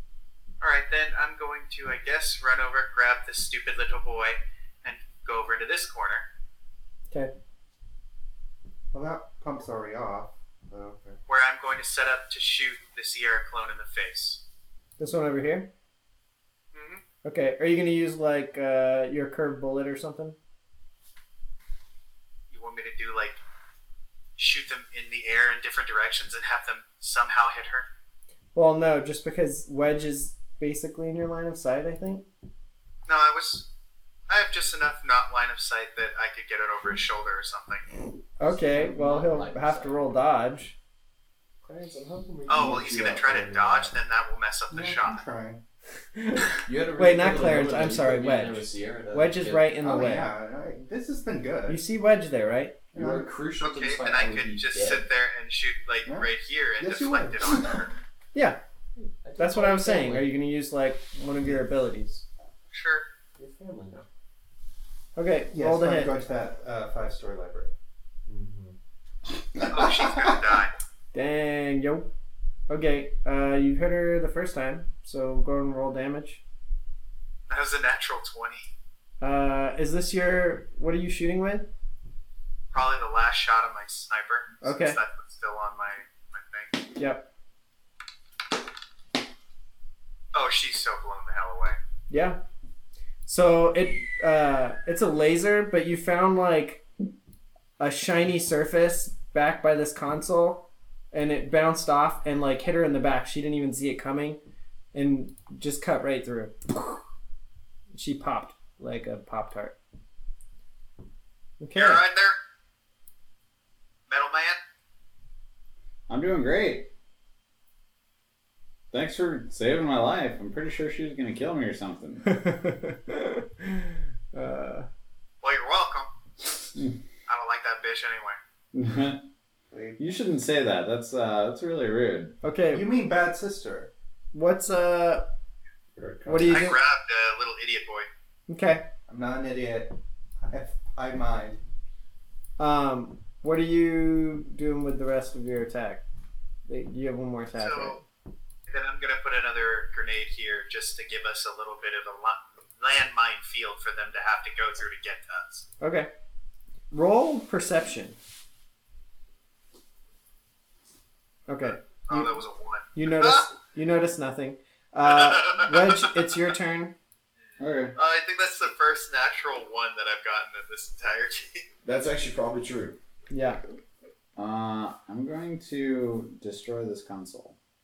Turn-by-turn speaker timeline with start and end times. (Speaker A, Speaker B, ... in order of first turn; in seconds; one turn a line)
Speaker A: 0.6-6.2
Speaker B: 8.9-11.2
Speaker A: 11.3-14.4
Speaker C: 15.0-15.7
Speaker A: 16.7-17.0
Speaker C: 17.2-20.4
Speaker A: 22.5-23.4
Speaker A: 24.4-27.9
Speaker C: 28.5-32.2
Speaker A: 33.1-33.6
Speaker A: 34.3-37.9
Speaker C: 38.4-40.8
Speaker D: 38.4-40.0
Speaker D: 41.6-43.9
Speaker A: 42.5-45.2
Speaker B: 44.7-45.6
Speaker C: 46.1-50.3
Speaker D: 46.6-49.7
Speaker B: 49.8-51.8
Speaker C: 51.7-52.8
Speaker B: 52.9-53.3
Speaker D: 52.9-55.0
Speaker A: 53.6-57.9
Speaker D: 56.8-57.3
Speaker B: 57.1-57.8
Speaker D: 59.0-60.3
Speaker C: 59.4-62.2
Speaker A: 62.7-63.0
Speaker D: 63.4-64.0
Speaker C: 65.2-66.2
Speaker B: 65.5-67.7
Speaker D: 68.3-68.8
Speaker A: 69.6-70.7
Speaker C: 71.1-72.1
Speaker C: 72.7-76.4
Speaker A: 77.5-78.7
Speaker C: 79.2-81.7
Speaker A: 82.7-86.8
Speaker C: 84.6-85.0
Speaker C: 87.0-87.2
Speaker A: 90.3-91.8
Speaker C: 92.1-92.4
Speaker C: 93.2-96.8
Speaker C: 97.8-104.4
Speaker C: 104.9-107.0
Speaker C: 107.9-109.8
Speaker C: 111.6-112.0
Speaker A: 111.7-112.3
Speaker A: 114.1-114.6
Speaker E: 116.1-116.9
Speaker E: 118.9-122.3
Speaker C: 122.2-124.9
Speaker A: 125.4-126.1
Speaker E: 126.8-127.0
Speaker A: 127.3-128.4
Speaker E: 128.7-129.2
Speaker B: 129.7-130.0
Speaker E: 130.0-132.3
Speaker C: 132.4-132.8
Speaker B: 132.7-133.9
Speaker C: 134.3-135.3
Speaker D: 135.9-136.7
Speaker C: 136.2-136.8
Speaker A: 136.4-138.1
Speaker C: 138.5-138.9
Speaker B: 139.1-141.6
Speaker C: 142.6-146.0
Speaker C: 146.7-148.0
Speaker A: 147.6-148.0
Speaker A: 148.7-155.6
Speaker C: 155.8-156.1
Speaker C: 156.9-158.2
Speaker C: 161.5-162.4
Speaker A: 162.1-163.4
Speaker C: 162.9-166.9
Speaker A: 165.0-166.1
Speaker E: 167.6-167.9
Speaker A: 167.9-171.6
Speaker D: 171.8-173.0
Speaker C: 173.3-173.6
Speaker E: 174.3-177.6